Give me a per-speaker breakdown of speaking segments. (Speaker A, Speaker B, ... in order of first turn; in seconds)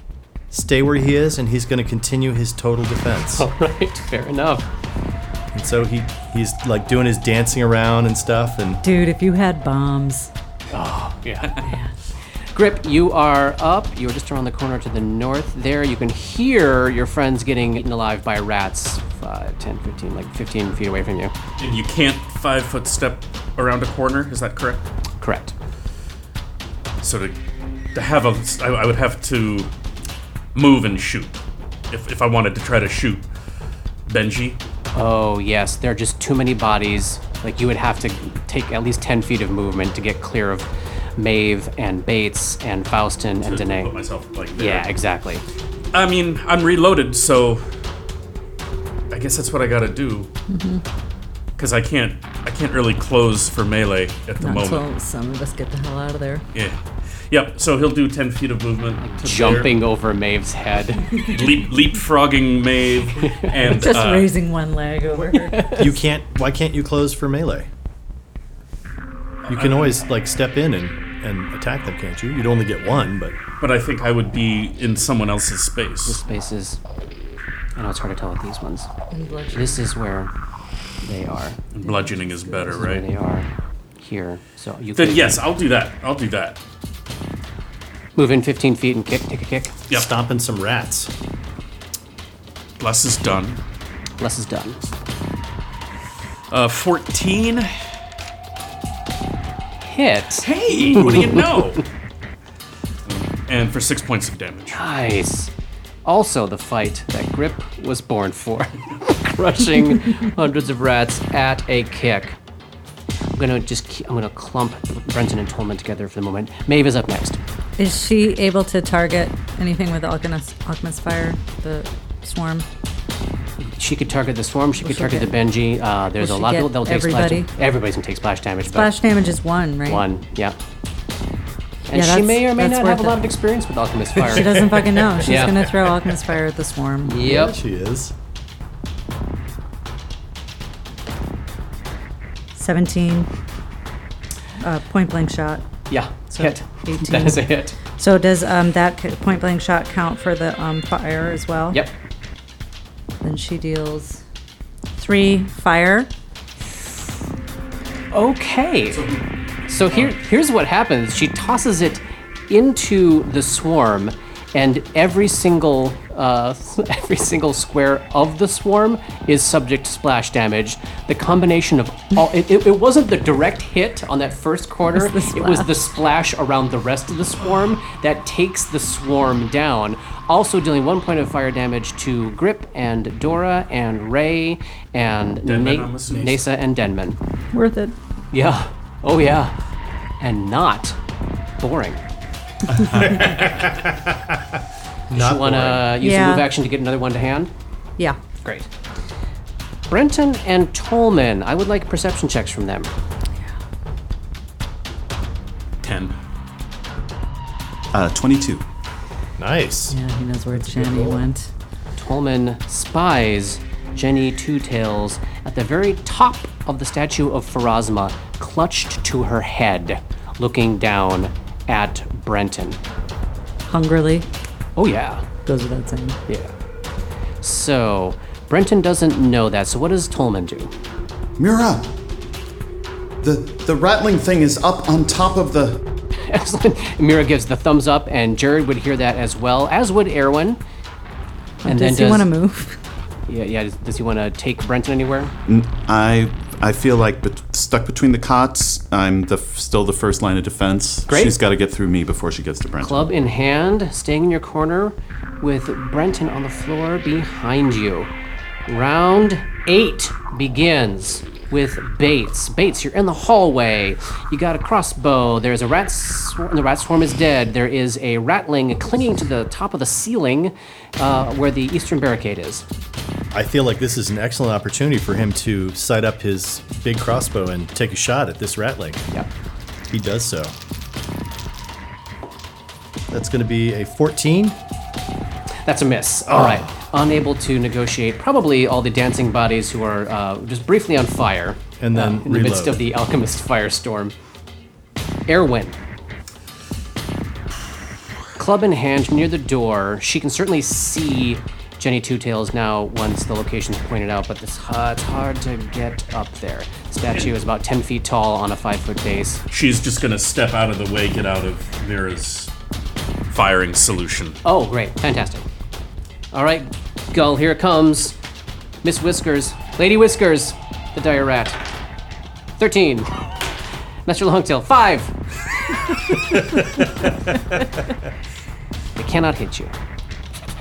Speaker A: 0.5-3.5, 5.5-8.8, 65.8-67.7, 69.5-73.4, 89.9-91.1, 134.4-135.1, 137.2-138.1, 192.9-194.4, 195.1-195.9, 209.4-210.0, 210.6-211.2, 273.3-279.0, 279.9-280.5, 283.1-284.6, 286.3-286.7, 291.8-292.9
Speaker B: 3.3-4.7, 10.7-11.6, 12.5-21.3, 25.2-25.5, 34.9-43.9, 44.6-45.4, 59.0-61.2, 63.2-63.5, 65.3-66.0, 76.1-76.8, 77.8-78.9, 79.5-80.3, 81.0-81.7, 82.5-85.4, 88.2-89.8, 94.2-94.8, 99.8-101.7, 104.7-105.5, 106.0-112.4, 113.4-117.4, 123.6-129.0, 129.8-130.6, 131.9-135.8, 137.1-137.6, 145.9-147.8, 158.1-159.0, 159.7-187.2, 188.3-189.6, 190.2-191.0, 191.6-192.0, 195.1-197.5, 198.4-198.7, 199.9-202.9, 212.0-222.8, 224.8-225.2, 226.3-226.5, 227.4-230.7, 236.2-240.6, 241.7-242.3, 243.3-245.3, 251.1-251.4, 252.8-258.1, 258.7-272.6, 285.6-294.1, 295.3-295.8, 298.4-309.4, 314.4-315.4, 316.3-318.2, 318.8-321.6, 322.6-323.1, 324.1-325.1, 326.1-326.4, 329.0-329.7
Speaker C: 8.8-10.3, 11.6-11.9, 50.5-50.8, 54.4-56.4, 63.5-65.7, 79.1-79.9, 117.8-122.7, 124.8-125.3, 126.2-127.5, 128.7-130.1, 131.9-133.2, 134.2-137.2, 142.5-143.3, 144.6-145.7, 146.3-151.8, 153.2-154.2, 155.0-156.1, 174.9-175.7, 187.5-187.9, 196.0-196.5, 209.9-211.5, 223.7-224.3, 225.5-226.2, 241.6-242.8
Speaker D: 21.6-24.9, 27.0-27.4, 27.9-29.7, 30.6-31.4, 31.9-33.2, 34.1-34.6, 43.4-44.9, 45.9-47.6, 49.1-50.3, 51.6-54.9, 57.3-59.8, 61.2-64.3, 69.4-70.0, 73.6-76.2, 81.7-83.0, 85.0-86.6, 92.8-93.6, 96.5-97.9, 100.4-101.8, 103.0-104.8, 158.9-160.2, 185.4-186.4, 205.8-206.2, 309.5-312.5, 313.3-314.4
Speaker E: 207.9-208.6, 231.4-232.0, 233.2-235.8, 245.5-253.1